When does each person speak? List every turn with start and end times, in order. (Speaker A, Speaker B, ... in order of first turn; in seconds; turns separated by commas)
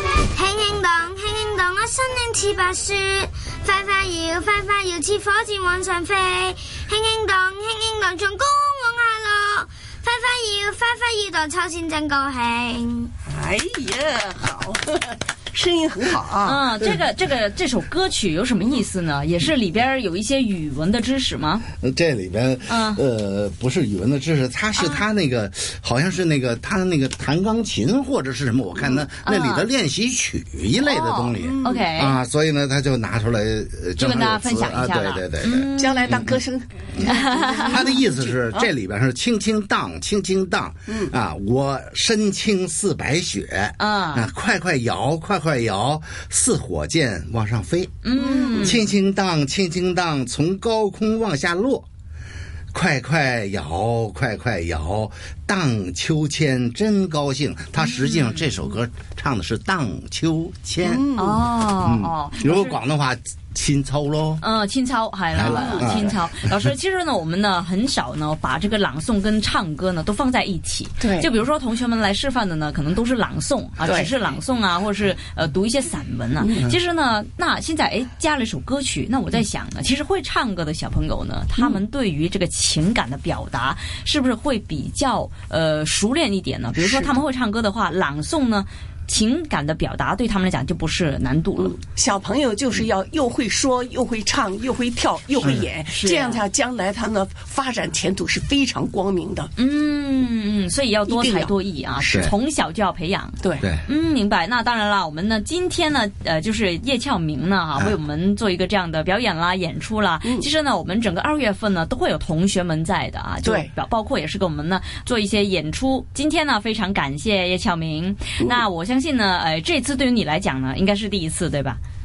Speaker A: 0.3-13.1, Speaker B: 13.2-16.9, Speaker C: 16.4-21.6, Speaker D: 21.8-36.4, Speaker C: 22.7-23.0, Speaker C: 24.8-25.0, Speaker C: 29.2-29.7, Speaker C: 30.8-32.2, Speaker B: 31.4-31.8, Speaker C: 34.0-36.3, Speaker B: 35.8-38.7, Speaker D: 36.9-51.9, Speaker C: 37.0-37.7, Speaker C: 43.8-44.3, Speaker C: 48.0-48.8, Speaker B: 48.1-48.8, Speaker D: 52.7-61.1, Speaker C: 57.8-58.5, Speaker B: 60.8-61.4, Speaker C: 61.2-62.8, Speaker D: 61.8-64.4, Speaker C: 64.4-91.8, Speaker D: 65.3-66.5, Speaker B: 65.4-66.0, Speaker B: 71.0-71.3, Speaker B: 73.8-74.1, Speaker B: 76.4-76.7, Speaker B: 86.8-87.2, Speaker B: 91.6-99.5, Speaker C: 95.9-96.4, Speaker C: 99.6-121.8, Speaker B: 101.1-101.5, Speaker D: 102.1-102.3, Speaker B: 103.4-103.7, Speaker B: 113.4-113.7